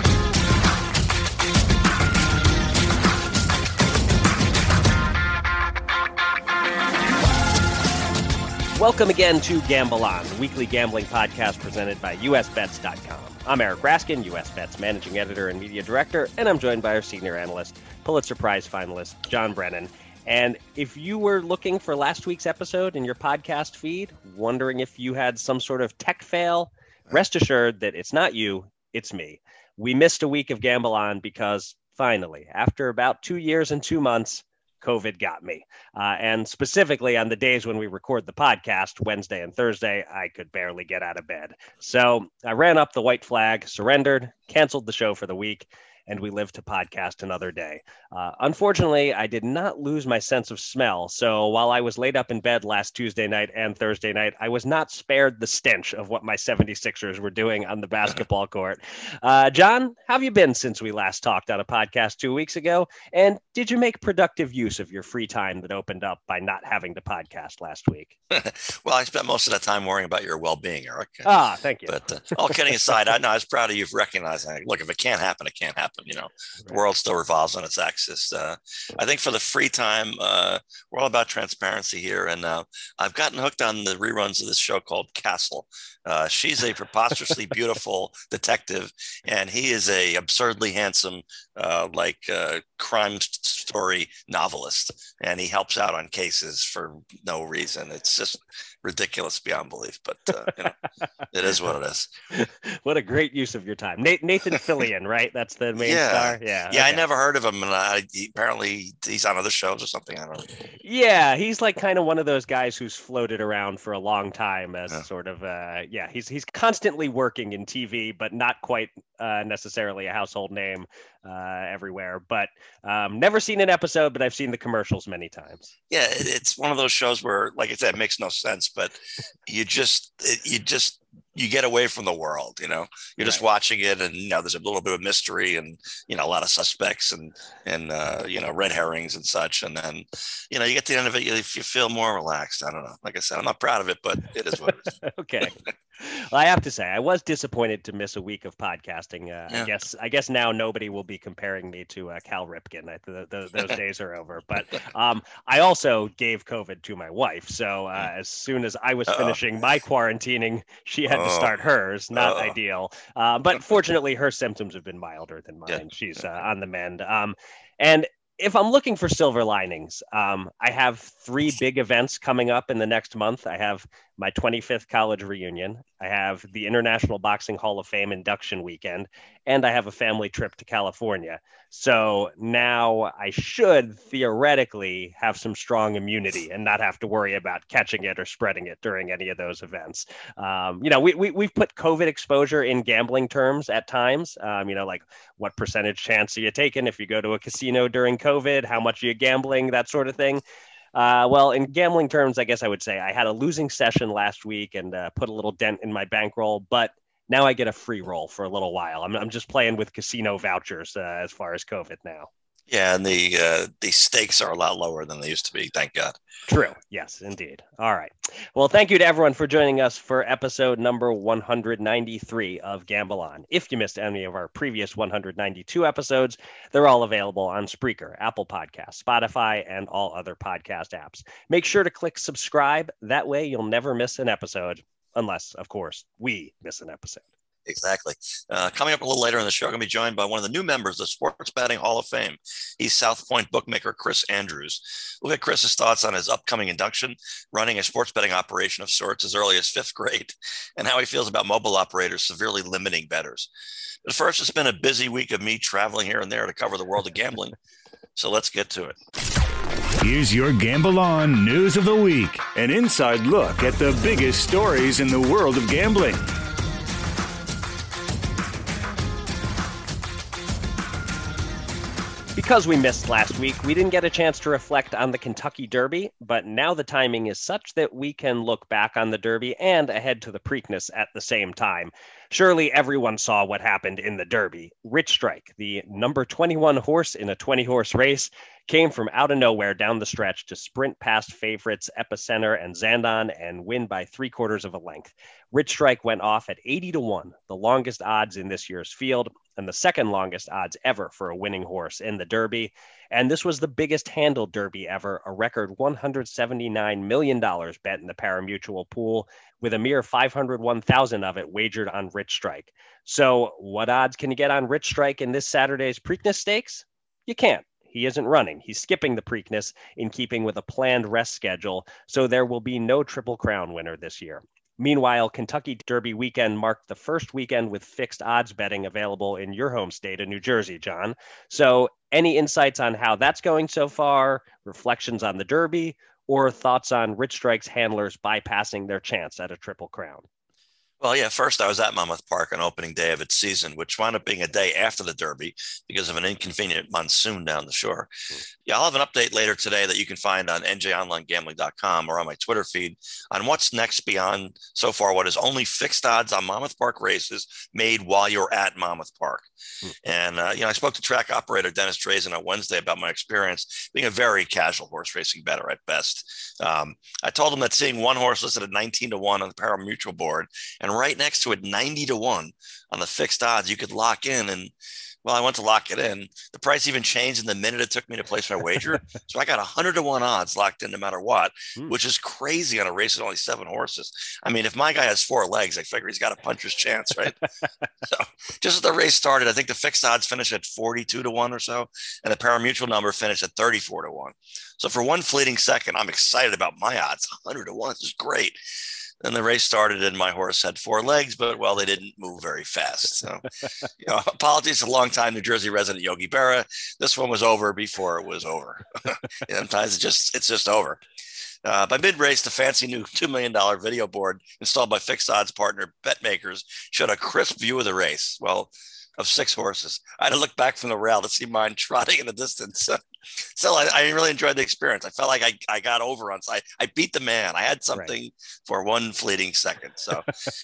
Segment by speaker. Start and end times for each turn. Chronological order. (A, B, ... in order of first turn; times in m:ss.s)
0:08.8-1:08.1 A
1:08.3-1:11.3 B
1:11.2-1:13.0 A
1:11.9-1:40.8 B
1:41.3-1:42.1 B
1:42.3-1:47.0 A
1:45.8-1:50.5 B
1:50.8-2:05.7 A
2:05.9-2:24.9 B
2:24.7-3:20.4 A
2:39.1-2:39.4 B
2:41.1-2:41.5 B
2:42.1-2:42.6 B
3:20.9-3:32.3 A
3:32.7-3:36.2 B
3:36.5-3:57.2 A
3:57.7-4:13.5 B
4:14.0-4:17.6 B
4:18.2-4:19.0 B
4:20.0-4:26.3 C
4:32.4-5:40.3 A
5:41.0-5:48.1 B
5:48.7-5:59.4 B
6:00.0-6:14.7 B
6:15.2-6:27.4 B
6:28.0-6:38.6 B
6:39.2-6:51.0 B
6:51.6-7:10.3 B